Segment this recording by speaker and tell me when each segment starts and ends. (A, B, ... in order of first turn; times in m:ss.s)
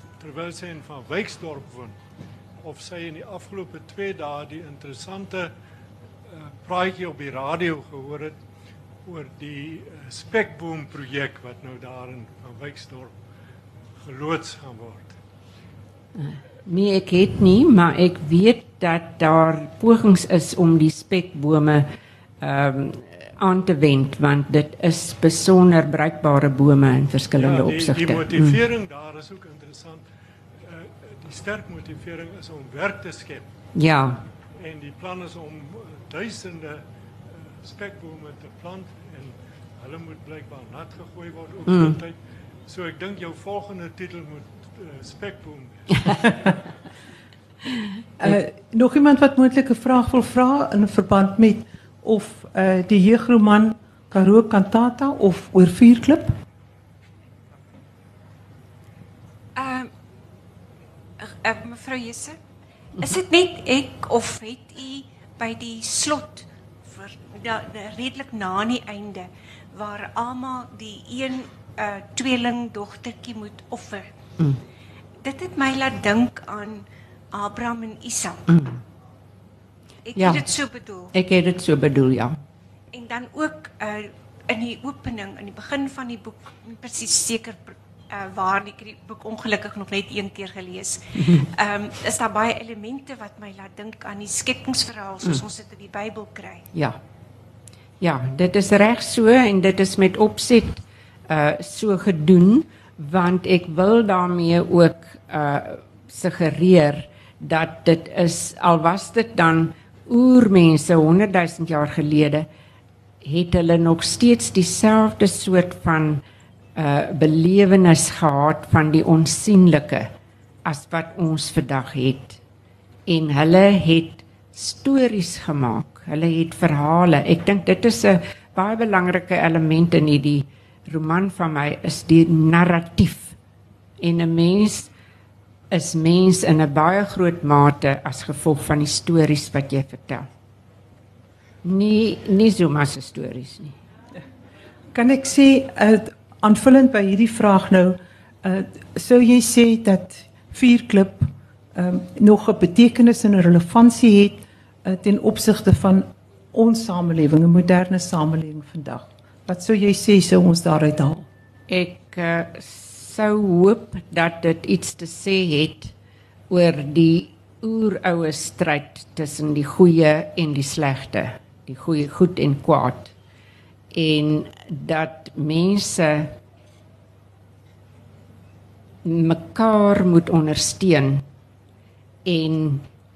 0:00.2-0:02.0 A
0:02.6-0:05.5 A
0:06.2-0:08.4 A
0:09.0-0:13.2 A
0:14.0-0:15.2 A
0:16.2-0:21.9 B
0:22.4-0:28.6 B
0:27.3-0:30.0 A
0:30.6-0:33.5 A
0:33.7-0:34.2 B
0:34.5-0:46.7 A
0:41.7-0:42.0 B
0:48.2-0:56.3 C
0:59.5-0:59.9 D
1:01.2-1:02.4 D
1:03.0-1:14.1 D
1:15.2-1:18.5 D
1:18.5-1:18.8 B
1:20.0-1:21.1 D
1:20.2-1:20.4 B
1:21.1-1:22.4 B
1:22.9-1:36.7 D
1:31.2-1:31.4 B
1:36.7-1:37.0 B
1:38.0-1:52.5 B
1:53.2-1:56.2 B
1:56.7-2:00.1 B
2:00.6-2:02.4 B
2:03.0-2:13.4 B
2:14.0-2:14.9 B
2:15.7-2:20.3 B
2:21.6-2:23.8 B
2:24.9-2:41.3 C
2:41.7-2:45.9 B
2:46.5-2:53.1 B
2:53.9-2:56.4 B
2:59.0-3:01.2 B
3:02.2-3:02.8 B